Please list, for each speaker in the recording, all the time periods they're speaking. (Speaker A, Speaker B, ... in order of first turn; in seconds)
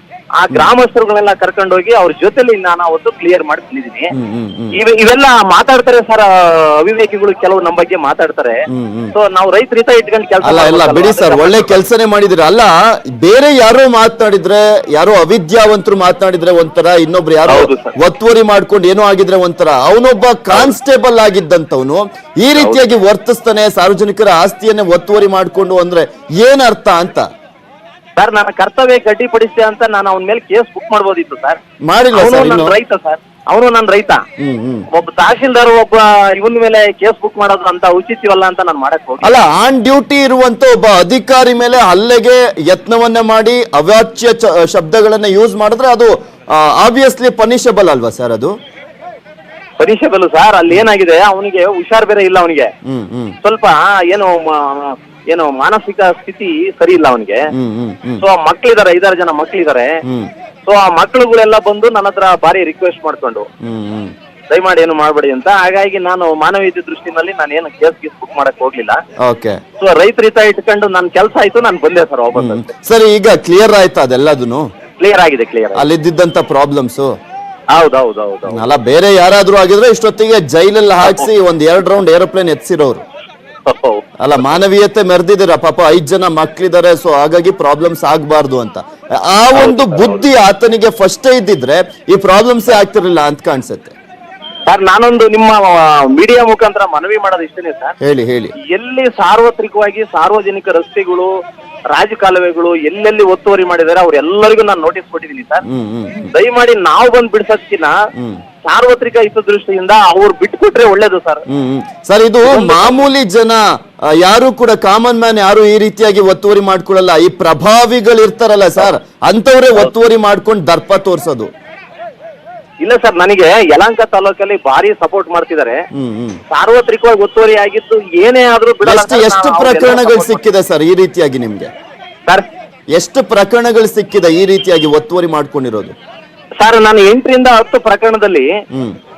Speaker A: 0.4-4.1, 4.8-8.6, 9.1-11.8, 17.4-17.9, 22.5-22.8, 28.1-31.6, 32.1-34.2, 34.9-39.4, 49.8-52.7, 53.4-57.4, 58.2-59.9, 60.6-63.5, 64.5-69.0, 69.8-72.7, 75.0-75.8, 77.7-78.7, 81.0-81.3, 83.7-84.6, 89.5-90.3, 94.7-97.9, 98.6-101.3, 101.9-105.6, 106.3-107.9, 108.7-111.4, 112.4-113.0, 122.8-125.8, 126.5-130.5, 136.6-138.5
Speaker B: 4.1-4.8, 8.7-9.1, 10.4-27.3, 31.9-32.8, 34.4-34.9, 39.2-48.5, 52.9-53.4, 57.5-58.2, 63.6-64.1, 69.2-69.6, 72.3-74.6, 75.7-77.1, 78.5-83.0, 84.2-93.9, 98.0-98.5, 105.7-106.3, 108.2-108.4, 111.5-113.6, 114.1-121.5, 125.9-126.4, 128.8-131.7, 132.9-135.9